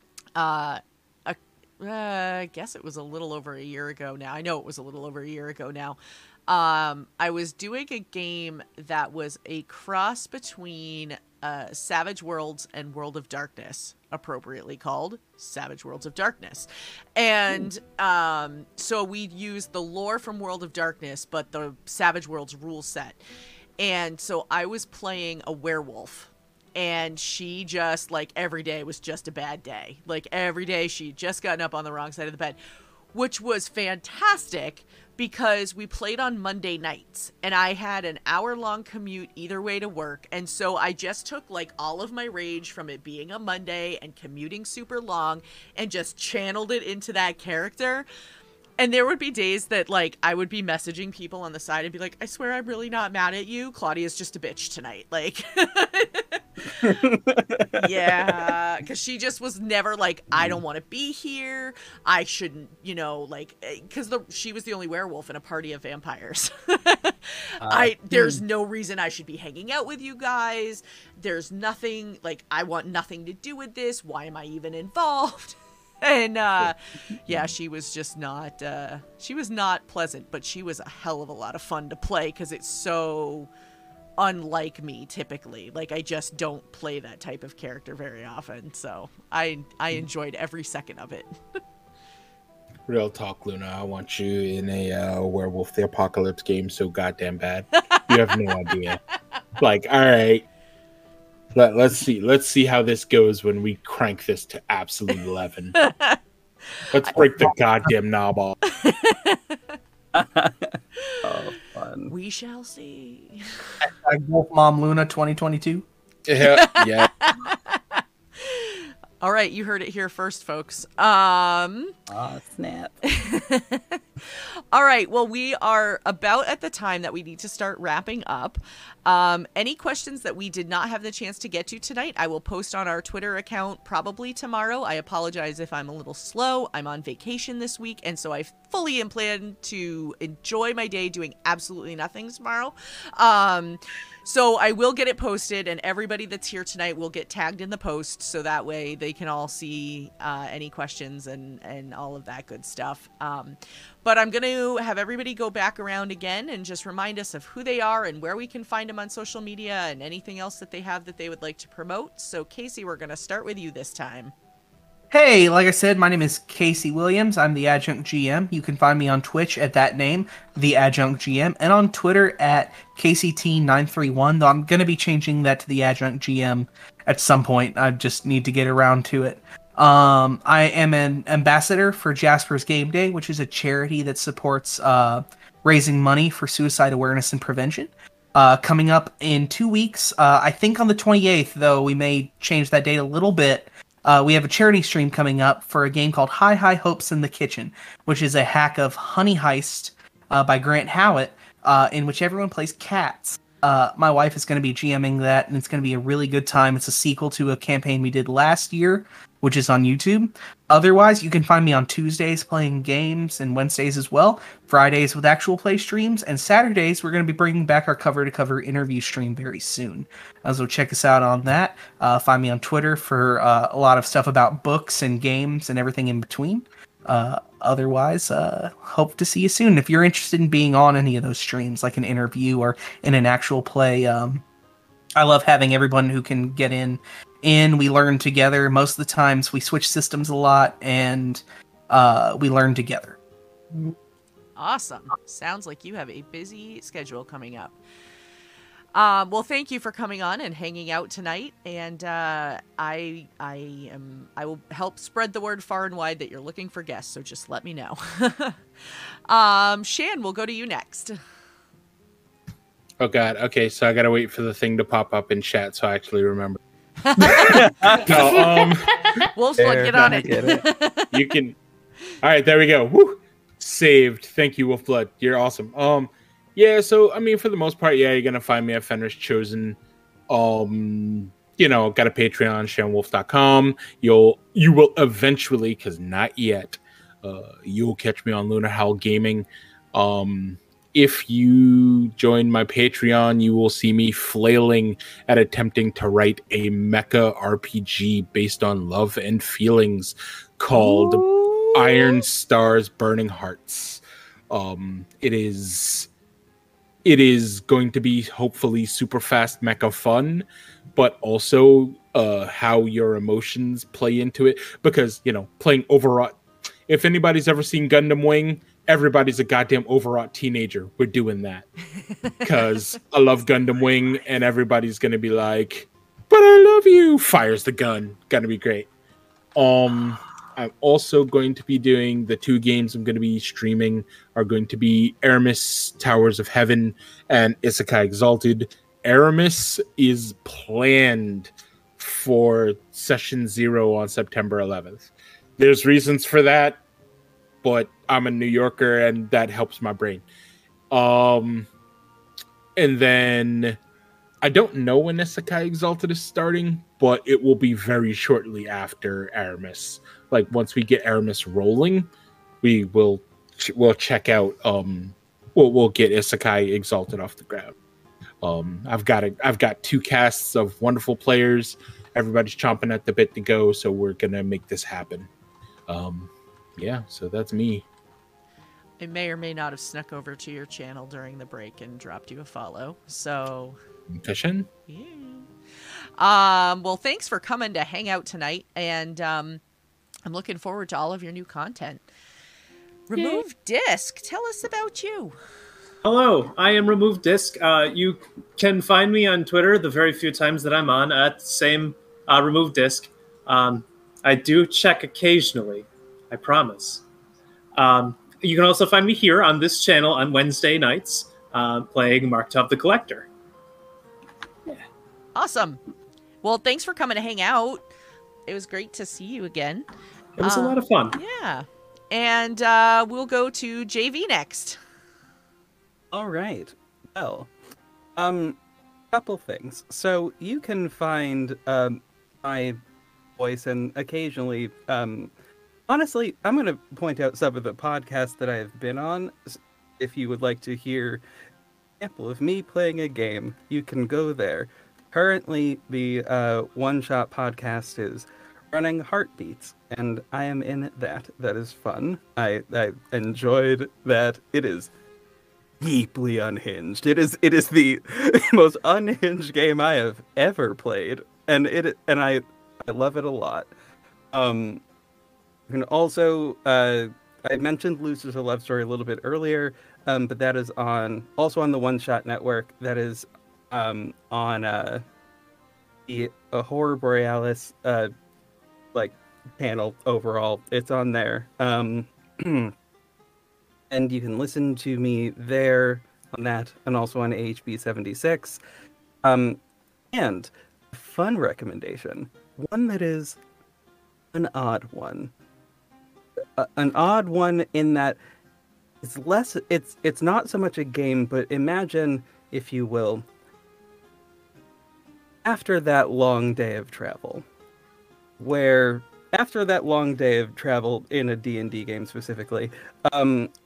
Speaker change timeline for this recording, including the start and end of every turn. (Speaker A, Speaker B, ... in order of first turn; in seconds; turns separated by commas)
Speaker A: 0.3-23.2, Speaker A: 23.8-32.6, Speaker A: 33.1-48.1, Speaker A: 48.8-56.9, Speaker B: 56.8-58.5, Speaker A: 57.7-83.5, Speaker B: 60.3-60.6, Speaker B: 67.6-68.4, Speaker A: 84.2-91.4, Speaker C: 92.9-99.0, Speaker C: 99.6-100.4, Speaker C: 101.5-105.8, Speaker A: 105.8-106.2, Speaker C: 106.9-108.6, Speaker A: 108.7-109.6, Speaker B: 110.1-112.1, Speaker A: 111.0-111.4, Speaker A: 112.1-113.7, Speaker D: 113.8-115.8, Speaker C: 116.2-117.1, Speaker A: 116.4-121.9, Speaker B: 122.1-123.0, Speaker A: 123.0-164.3, Speaker D: 165.1-234.4, Speaker D: 235.2-243.2, Speaker A: 244.6-247.8, Speaker A: 248.9-258.6, Speaker A: 259.3-261.2, Speaker C: 263.0-266.6, Speaker C: 267.2-268.9, Speaker B: 267.4-268.5, Speaker A: 268.3-268.6, Speaker A: 269.3-271.3, Speaker B: 269.6-270.6, Speaker C: 271.1-271.6, Speaker C: 272.2-279.8, Speaker C: 280.3-306.1, Speaker B: 301.6-302.0, Speaker C: 307.0-321.7, Speaker C: 322.4-328.9, Speaker C: 329.6-346.8, Speaker C: 347.6-350.2, Speaker C: 350.9-351.7, Speaker C: 352.8-353.8, Speaker C: 354.4-362.1, Speaker C: 362.6-367.7, Speaker C: 368.4-375.3, Speaker C: 375.9-377.8, Speaker A: 379.0-383.8, Speaker C: 384.1-384.7, Speaker A: 384.9-385.5, Speaker A: 386.2-389.6, Speaker A: 390.2-392.1, Speaker A: 393.1-395.3, Speaker E: 396.0-407.0, Speaker E: 407.7-413.3, Speaker A: 415.3-415.8, Speaker A: 416.4-417.9, Speaker A: 418.5-419.9, Speaker E: 420.4-421.2, Speaker A: 420.4-424.8, Speaker B: 426.1-427.5, Speaker B: 428.1-428.6, Speaker B: 429.1-432.8, Speaker B: 433.4-435.3, Speaker B: 435.9-441.2, Speaker B: 442.0-454.9, Speaker B: 455.8-463.7, Speaker B: 464.3-464.8, Speaker B: 465.7-475.0, Speaker B: 476.1-478.1, Speaker B: 478.9-482.7, Speaker B: 483.9-488.6, Speaker B: 489.2-489.6, Speaker B: 490.1-493.4, Speaker B: 494.3-495.3, Speaker B: 496.6-498.2, Speaker B: 499.0-503.2, Speaker B: 505.4-507.4, Speaker B: 508.4-513.5